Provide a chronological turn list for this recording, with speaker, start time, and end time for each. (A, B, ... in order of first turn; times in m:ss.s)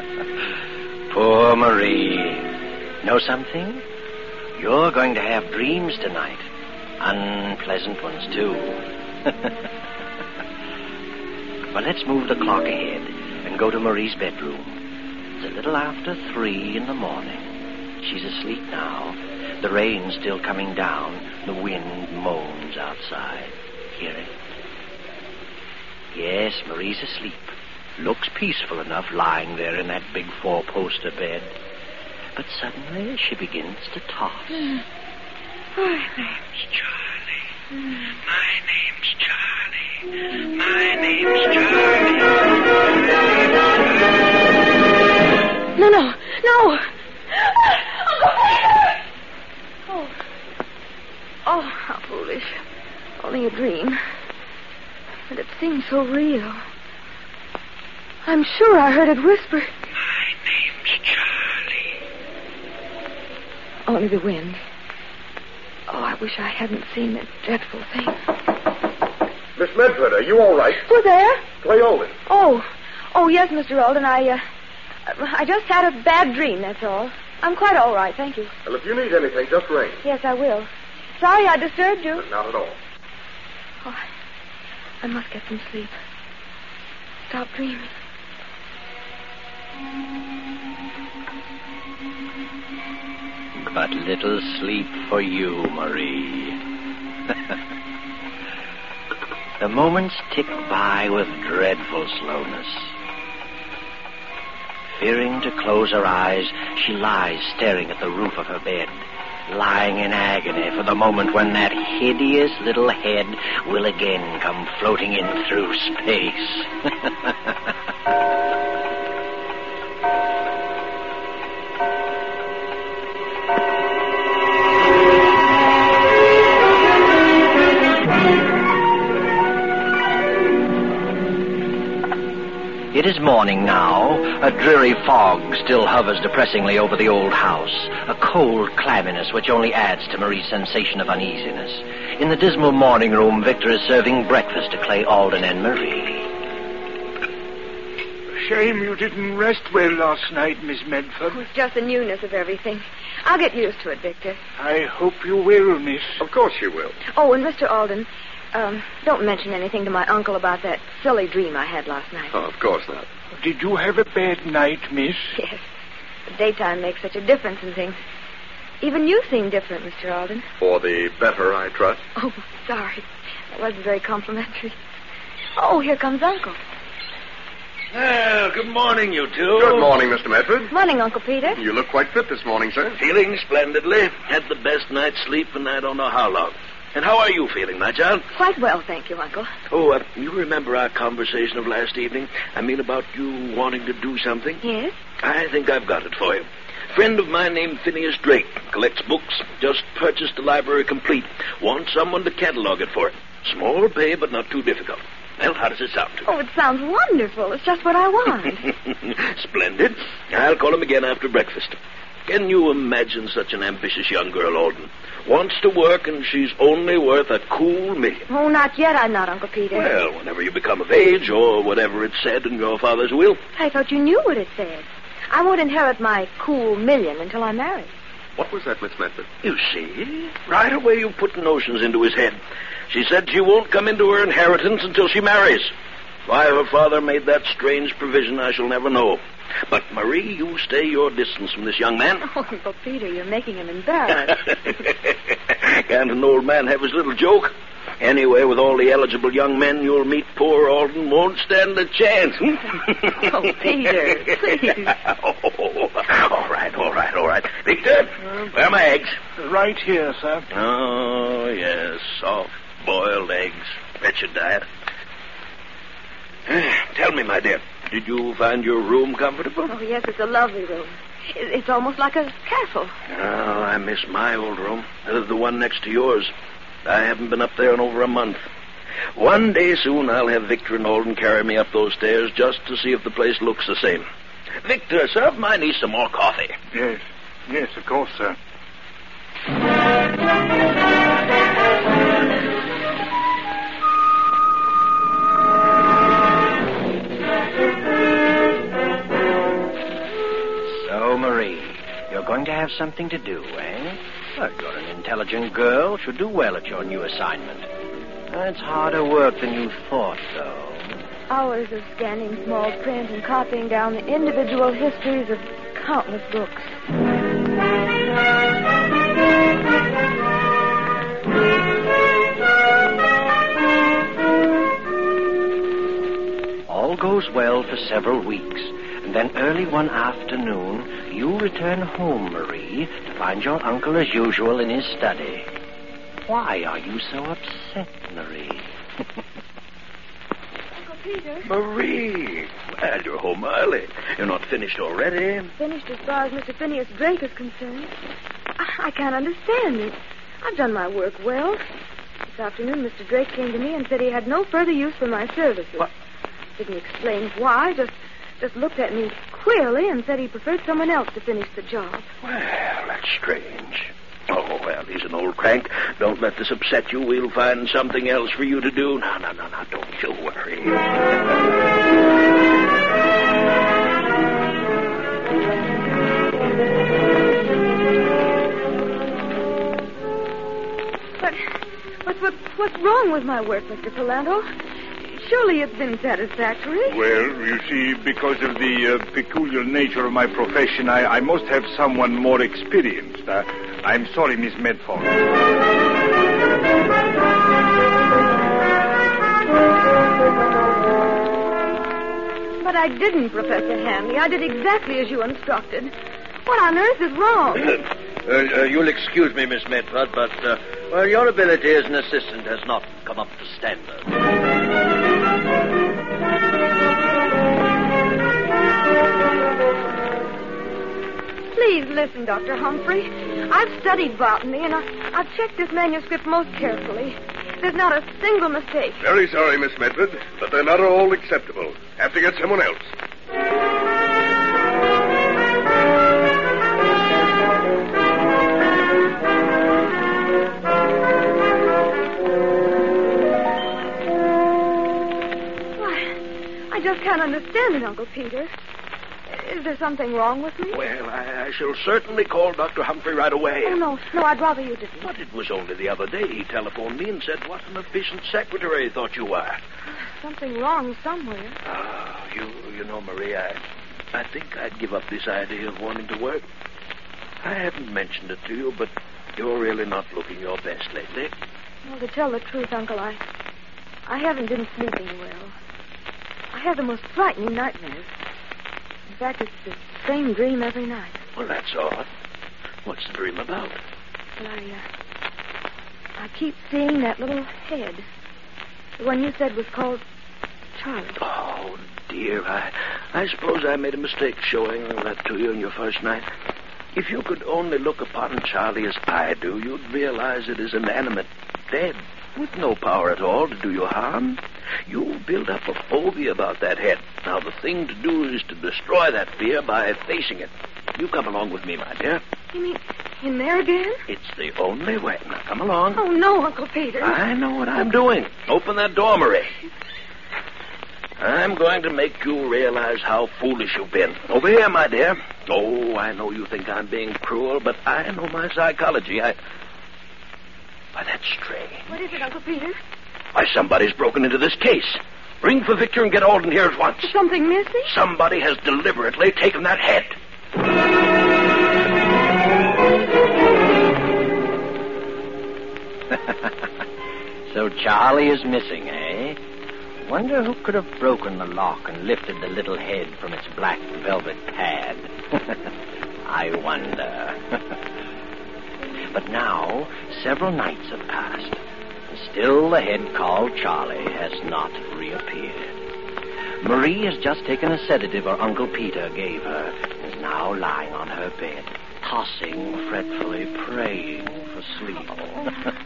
0:01.1-0:03.8 A
0:04.6-0:06.5 A
0:07.0-0:09.5 A
0:11.7-0:14.8 A
0:15.4-0:24.3 A
0:26.1-0:31.5 A
0:32.3-0:34.7 A
0:34.5-0:34.8 B
0:35.8-0:36.4 B
0:40.8-0:42.0 A
0:45.8-0:49.0 B
0:49.9-0:50.1 B
0:51.4-0:52.6 B
0:53.2-0:54.0 B
0:55.3-0:56.6 B
0:58.2-0:59.7 B
1:00.4-1:01.6 C
1:03.8-1:04.6 B
1:05.9-1:08.2 B
1:09.6-1:10.8 D
1:10.8-1:11.4 B
1:11.6-1:12.2 D
1:12.3-1:14.4 B
1:15.0-1:18.5 B
1:18.6-1:20.0 D
1:20.0-1:22.2 B
1:22.2-1:22.8 D
1:25.0-1:25.9 B
1:27.3-1:27.9 B
1:33.6-1:36.6 A
1:39.6-1:42.9 A
1:45.0-1:57.3 A
2:12.9-2:26.3 A
2:28.3-2:31.5 E
2:31.3-2:34.4 B
2:34.6-2:36.2 E
2:36.2-2:37.0 D
2:37.0-2:42.3 B
2:42.3-2:43.1 D
2:43.4-2:45.3 E
2:45.4-2:45.6 B
2:46.3-2:48.0 B
2:48.8-2:50.4 B
2:50.6-2:52.0 D
2:52.2-2:54.8 B
2:55.6-2:56.6 B
2:57.9-2:59.9 C
2:59.5-3:00.7 D
3:00.7-3:01.6 B
3:01.6-3:03.0 D
3:03.0-3:08.3 C
3:08.3-3:09.5 B
3:09.7-3:14.6 C
3:14.6-3:14.9 B
3:15.2-3:26.3 C
3:26.2-3:28.7 B
3:29.0-3:38.3 C
3:38.3-3:39.9 B
3:39.7-3:43.4 C
3:43.5-3:47.9 B
3:48.4-3:49.3 D
3:49.4-3:52.4 C
3:52.9-3:55.7 C
3:56.2-4:02.2 C
4:02.2-4:04.8 B
4:05.5-4:13.6 C
4:13.1-4:15.0 B
4:14.2-4:19.2 C
4:19.4-4:20.5 E
4:20.5-4:24.7 C
4:26.5-4:29.7 C
4:29.7-4:32.9 B
4:33.1-4:36.3 C
4:36.8-4:38.4 C
4:39.1-4:44.0 C
4:44.6-4:46.6 C
4:46.7-4:48.4 E
5:00.7-5:07.7 A
5:08.3-5:10.9 A
5:11.3-5:16.8 B
5:26.7-5:35.5 A
5:36.2-5:38.7 A
5:40.8-5:41.5 B
5:41.4-5:45.5 C
5:45.6-5:47.9 B
5:48.6-5:51.6 B
5:52.3-5:55.9 B
5:56.6-6:02.1 B
6:02.2-6:10.8 C
6:22.0-6:24.5 B
6:25.0-6:27.0 B
6:26.9-6:35.1 E
6:42.6-6:45.9 B
6:46.4-6:47.7 B
6:48.2-6:54.1 A
7:01.5-7:09.0 B
7:09.0-7:12.9 D
7:25.8-7:28.5 B
7:29.3-7:30.8 B
7:30.7-7:33.8 C
7:33.6-7:35.1 B
7:35.0-7:39.6 C
7:39.8-7:41.6 B
7:41.6-7:43.6 C
7:44.1-7:46.4 C
7:47.4-7:51.3 C
7:51.8-7:53.2 B
7:54.1-7:55.5 B
7:56.5-7:58.1 B
7:59.1-8:01.2 B
8:01.4-8:02.1 C
8:02.8-8:03.8 C
8:04.4-8:04.8 B
8:06.2-8:08.0 B
8:09.0-8:10.0 B
8:10.8-8:11.2 B
8:11.2-8:16.3 C
8:16.9-8:32.2 C
8:32.5-8:34.0 B
8:34.1-8:36.0 C
8:36.0-8:37.2 B
8:37.0-8:39.5 C
8:41.2-8:49.3 C
8:50.9-8:51.9 C
8:51.9-8:52.8 B
8:53.3-8:57.1 C
8:57.0-8:57.9 B
8:57.9-9:00.1 C
9:06.1-9:06.4 A
9:07.5-9:09.4 A
9:10.0-9:15.6 A
9:16.2-9:17.8 A
9:19.1-9:25.8 A
9:26.6-9:35.5 A
9:35.1-9:35.5 B